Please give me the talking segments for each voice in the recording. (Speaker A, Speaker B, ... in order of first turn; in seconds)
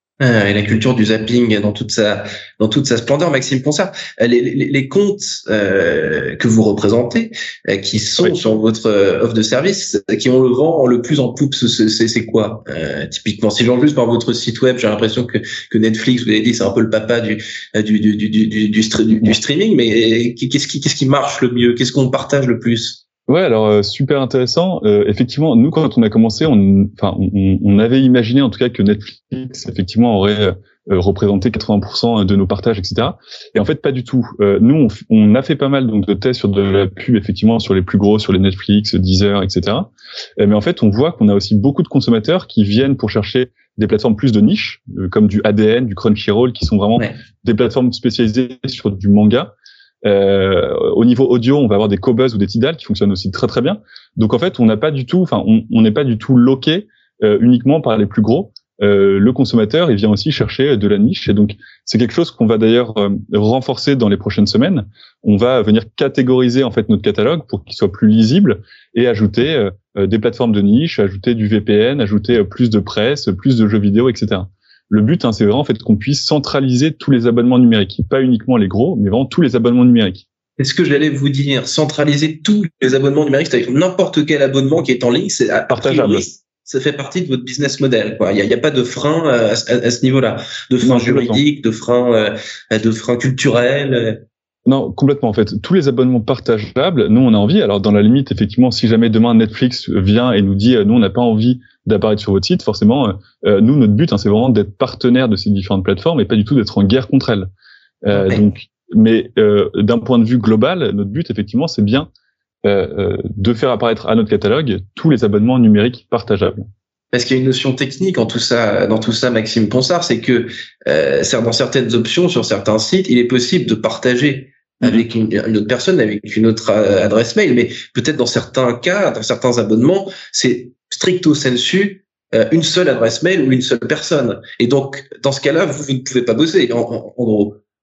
Speaker A: 0.2-23.0, 80.6-94.2, 108.1-108.5, 117.1-137.6
Speaker B: 23.3-49.5, 50.0-80.2, 85.7-86.2, 90.8-91.4, 94.7-107.5, 108.0-112.1, 112.6-116.7